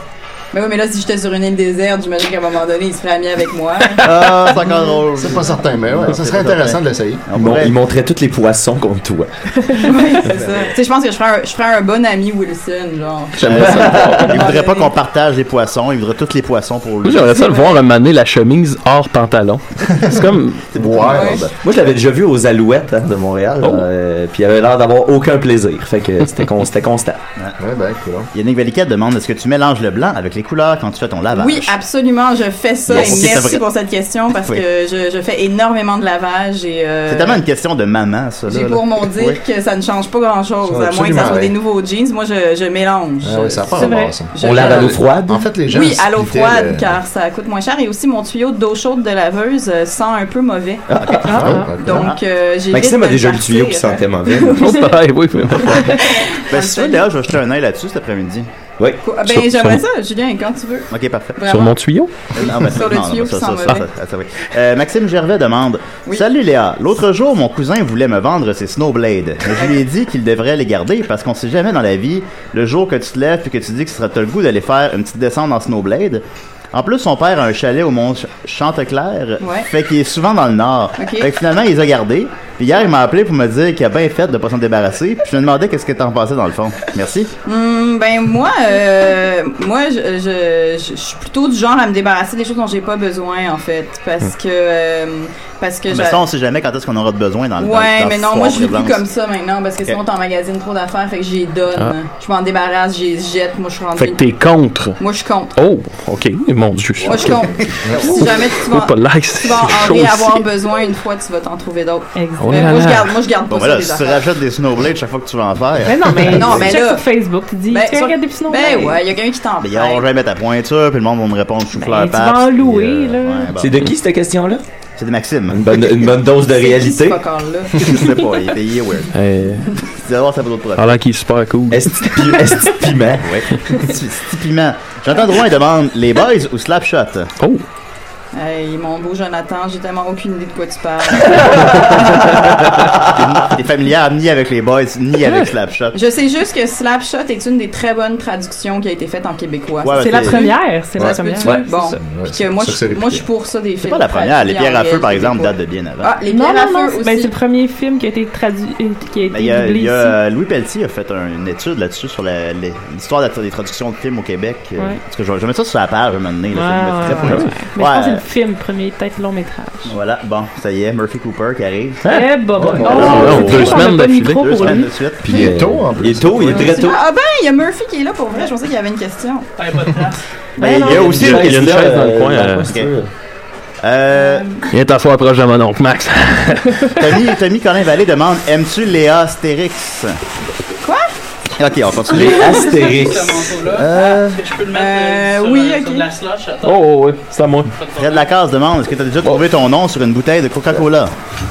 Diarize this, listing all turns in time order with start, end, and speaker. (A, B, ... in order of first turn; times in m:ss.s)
0:00.5-0:04.6 A
0:04.0-0:07.7 B
0:05.2-0:07.2 C
0:07.3-0:09.5 D
0:09.8-0:14.9 A
0:13.4-0:17.5 B
0:13.4-0:14.3 D
0:17.0-0:20.8 E
0:17.3-0:17.8 A
0:20.7-0:21.5 C
0:20.8-0:21.4 B
0:21.1-0:21.4 A
0:21.5-0:27.2 D
0:27.6-0:28.3 C
0:28.3-0:31.7 B
0:31.3-0:37.4 A
0:32.9-0:33.6 B
0:32.9-0:33.4 D
0:37.1-0:39.4 B
0:38.5-0:45.1 A
0:40.6-0:41.5 C
0:43.2-0:47.0 C
0:43.7-0:44.2 F
0:44.4-0:45.4 D
0:45.7-0:50.8 A
0:50.9-0:51.6 D
0:51.1-0:52.2 B
0:51.2-0:51.8 F
0:51.3-0:52.1 C
0:51.8-0:54.9 A
0:52.7-0:54.6 D
0:54.5-0:56.0 E
0:55.6-0:57.0 A
0:56.5-0:58.5 B
0:59.0-1:01.8 A
0:59.2-0:59.8 E
1:00.9-1:01.4 B
1:01.4-1:02.1 E
1:02.3-1:27.3 B
1:02.4-1:03.8 A
1:19.4-1:19.7 A
1:21.0-1:21.3 A
1:27.4-1:36.2 A
1:35.9-1:39.0 B
1:37.6-1:44.2 A
1:44.0-1:45.0 E
1:45.0-1:45.5 A
1:45.6-1:47.5 E
1:47.0-1:54.2 A
1:47.8-1:48.2 C
1:48.0-1:50.4 E
1:52.1-1:52.9 F
1:52.4-1:53.1 E
1:53.5-1:56.7 B
1:55.8-1:59.0 F
1:56.3-1:57.1 A
1:57.6-2:00.0 A
1:59.6-2:03.8 B
2:01.8-2:03.5 F
2:03.5-2:04.6 D
2:05.0-2:05.9 B
2:05.5-2:07.2 D
2:06.4-2:08.1 A
2:07.7-2:09.1 B
2:09.1-2:09.7 E
2:09.8-2:11.0 B
2:10.8-2:12.4 E
2:11.7-2:13.4 D
2:13.2-2:17.3 B
2:18.3-2:22.0 A
2:21.3-2:21.9 D
2:23.1-2:26.0 B
2:25.2-2:25.5 E
2:25.9-2:37.3 A
2:29.8-2:30.6 B
2:29.9-2:32.0 F
2:31.0-2:31.3 C
2:32.0-2:33.2 C
2:33.8-2:36.1 B
2:36.3-2:40.2 F
2:39.3-2:48.2 B
2:46.5-2:49.9 F
2:47.1-2:47.5 E
2:49.8-2:52.0 B
2:52.0-2:54.7 E
2:52.1-2:54.9 F
2:52.6-2:53.6 C
2:52.8-2:55.5 B
2:55.2-2:57.0 D
2:55.2-2:56.7 C
2:56.5-2:59.5 A
2:59.6-3:00.2 G
3:00.6-3:01.8 B
3:00.6-3:03.1 D
3:01.1-3:02.7 E
3:03.8-3:04.5 B
3:04.1-3:04.6 A
3:04.7-3:07.2 E
3:07.0-3:10.2 B
3:10.8-3:11.1 A
3:11.6-3:13.1 B
3:12.1-3:13.5 D
3:13.0-3:16.8 G
3:13.6-3:14.4 B
3:14.7-3:16.1 A
3:16.6-3:17.7 E
3:17.8-3:18.2 G
3:18.0-3:21.1 B